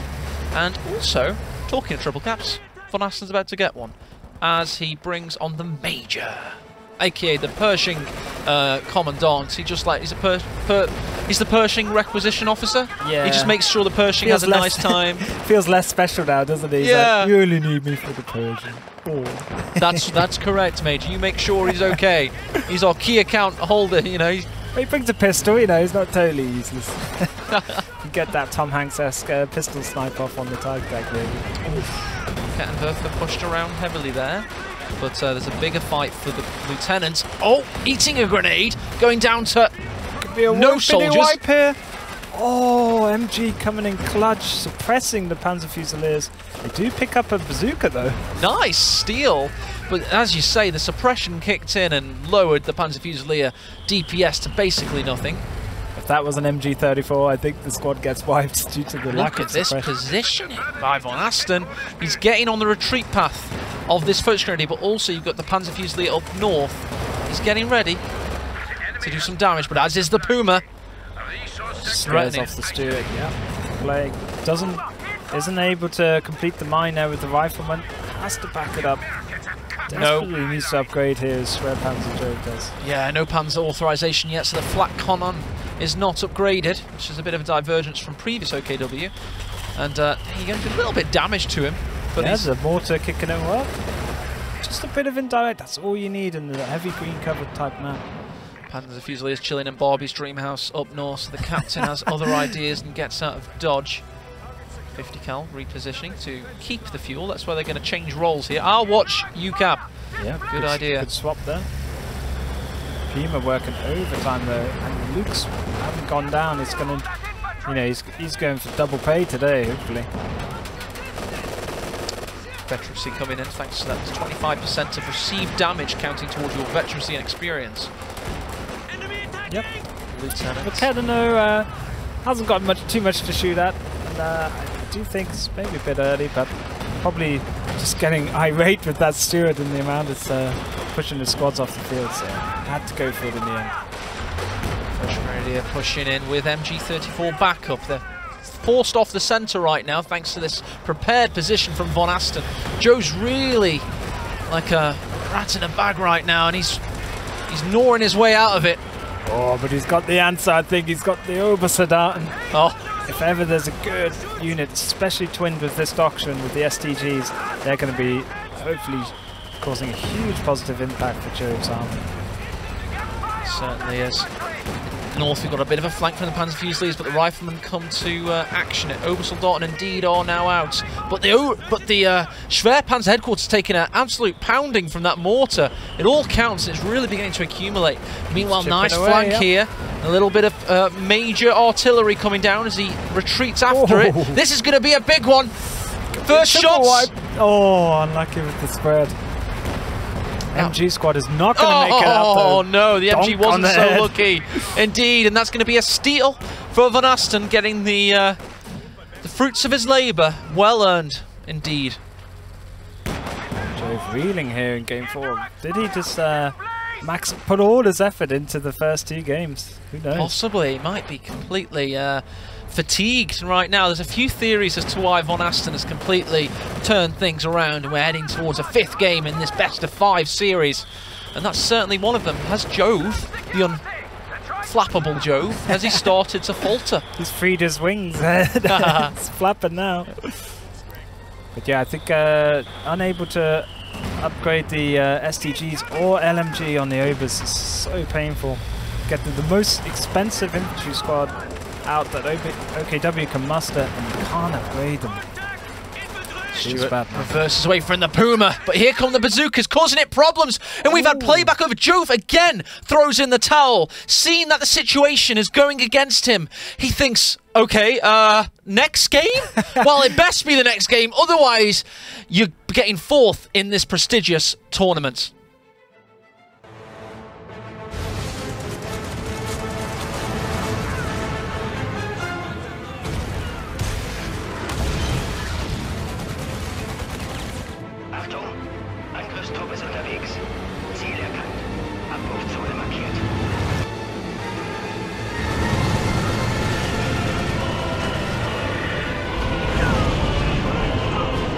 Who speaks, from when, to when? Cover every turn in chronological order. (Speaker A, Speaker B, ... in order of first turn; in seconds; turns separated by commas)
Speaker A: 0.5-15.2, Speaker B: 13.0-13.6, Speaker B: 14.2-20.2, Speaker A: 16.8-17.3, Speaker A: 19.8-24.5, Speaker B: 24.7-31.6, Speaker A: 27.5-27.8, Speaker A: 31.6-39.8, Speaker B: 40.2-41.8, Speaker A: 40.5-41.4, Speaker B: 42.3-48.3, Speaker A: 48.4-55.5, Speaker B: 56.0-59.9, Speaker A: 59.1-68.0, Speaker A: 69.0-70.6, Speaker A: 71.8-72.5, Speaker B: 71.8-79.0, Speaker B: 79.9-82.8, Speaker A: 79.9-80.3, Speaker A: 82.8-89.1, Speaker A: 89.7-92.5, Speaker B: 92.2-93.8, Speaker B: 94.6-98.1, Speaker A: 98.7-104.0, Speaker A: 104.9-109.8, Speaker B: 110.2-111.7, Speaker A: 110.5-111.1, Speaker B: 113.1-117.1, Speaker B: 117.6-120.1, Speaker A: 122.7-127.9, Speaker A: 130.1-130.9, Speaker B: 130.6-143.8, Speaker A: 144.9-153.9, Speaker A: 154.5-156.8, Speaker A: 157.5-158.8, Speaker B: 159.3-162.3, Speaker A: 162.5-162.8, Speaker B: 163.1-172.1, Speaker A: 173.4-174.3, Speaker A: 174.9-197.1, Speaker B: 188.3-189.5, Speaker B: 193.7-194.4, Speaker B: 196.1-199.2, Speaker B: 200.5-204.6, Speaker A: 201.6-208.4, Speaker A: 209.2-212.0, Speaker B: 213.7-220.3, Speaker A: 220.1-233.8, Speaker A: 234.6-237.1, Speaker B: 237.2-240.2, Speaker A: 238.7-239.1, Speaker B: 241.6-255.3, Speaker A: 256.5-275.3, Speaker B: 256.6-257.3, Speaker B: 260.9-261.5, Speaker C: 288.3-288.5, Speaker C: 289.2-290.4, Speaker C: 291.1-291.4, Speaker C: 292.4-293.0